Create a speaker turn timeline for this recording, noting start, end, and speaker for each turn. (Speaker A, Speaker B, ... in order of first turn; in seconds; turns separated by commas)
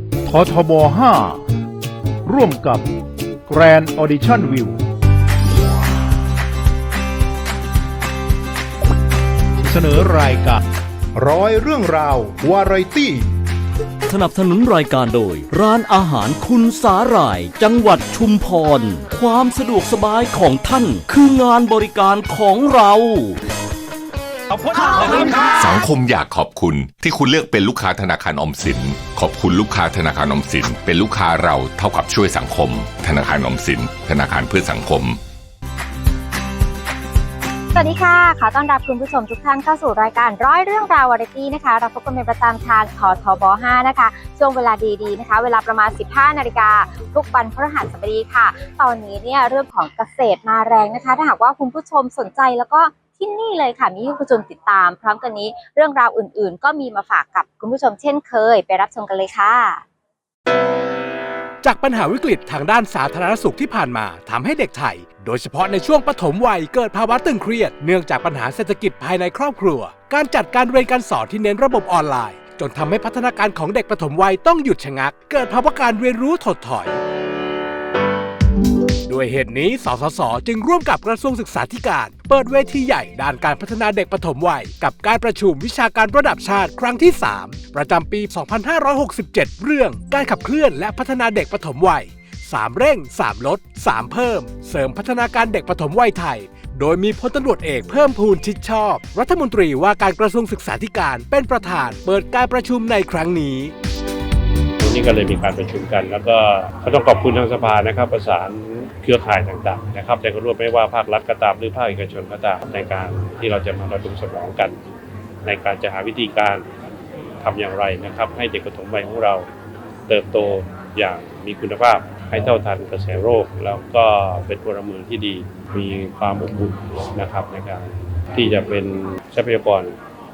Speaker A: 0.3-1.4, Speaker A: 2.3-2.9, Speaker A: 3.5-4.8, Speaker A: 9.6-10.6, Speaker A: 11.1-13.2, Speaker B: 14.1-23.4, Speaker C: 25.6-35.2, Speaker D: 37.7-59.8, Speaker E: 61.6-77.0, Speaker E: 79.1-103.7, Speaker F: 104.8-114.8, Speaker F: 115.4-116.7, Speaker F: 117.4-119.5, Speaker F: 120.1-130.0